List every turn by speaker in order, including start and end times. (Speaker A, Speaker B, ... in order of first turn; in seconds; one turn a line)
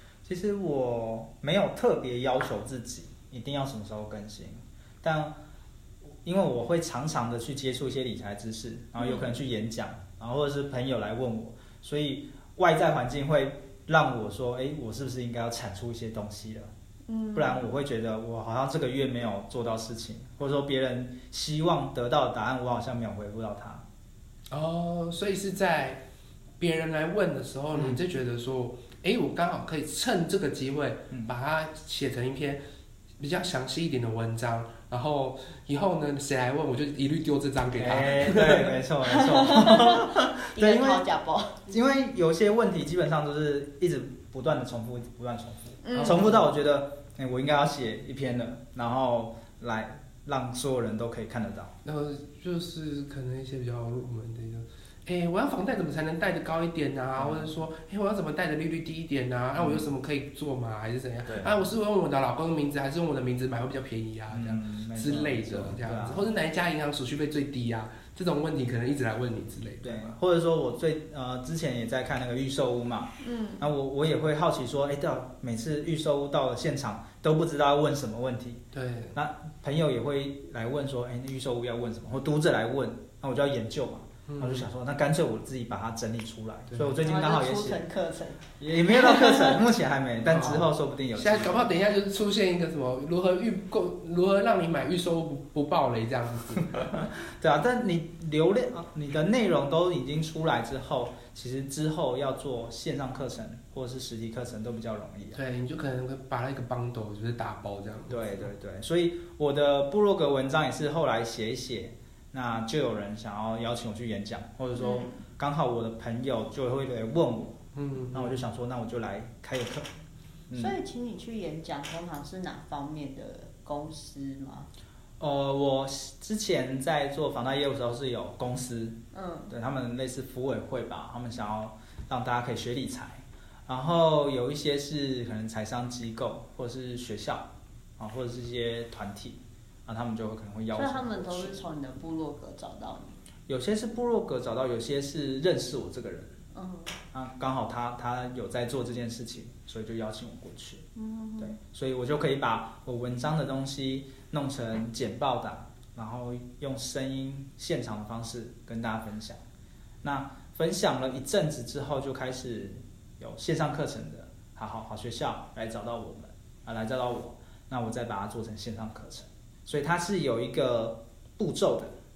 Speaker A: 0.2-5.3
Speaker A: 6.2-16.7
Speaker B: 9.0-9.3
Speaker B: 17.1-17.7
Speaker A: 17.4-23.8
Speaker C: 24.5-26.0
Speaker C: 26.6-32.6
Speaker C: 33.2-38.8
Speaker A: 37.8-41.0
Speaker B: 39.0-41.7
Speaker A: 41.7-51.7
Speaker B: 45.8-46.4
Speaker C: 45.9-46.5
Speaker C: 51.8-70.2
Speaker A: 57.2-57.5
Speaker A: 59.6-59.9
Speaker A: 61.3-61.6
Speaker A: 64.3-66.2
Speaker A: 69.8-78.6
Speaker B: 73.2-73.7
Speaker C: 78.7-79.2
Speaker A: 79.1-87.8
Speaker C: 84.3-84.7
Speaker C: 86.7-87.0
Speaker B: 87.0-89.6
Speaker A: 88.6-91.7
Speaker C: 90.3-97.0
Speaker A: 96.9-105.4
Speaker C: 105.3-108.5
Speaker A: 108.1-117.6
Speaker B: 114.8-115.2
Speaker C: 117.8-118.4
Speaker A: 118.1-119.9
Speaker A: 120.5-120.8
Speaker B: 120.5-124.7
Speaker A: 125.2-129.0
Speaker B: 129.1-129.6
Speaker A: 129.5-141.6
Speaker B: 140.7-143.2
Speaker A: 143.5-146.3
Speaker B: 146.5-147.0
Speaker A: 147.1-150.8
Speaker B: 151.0-151.6
Speaker A: 151.4-159.4
Speaker A: 160.0-171.9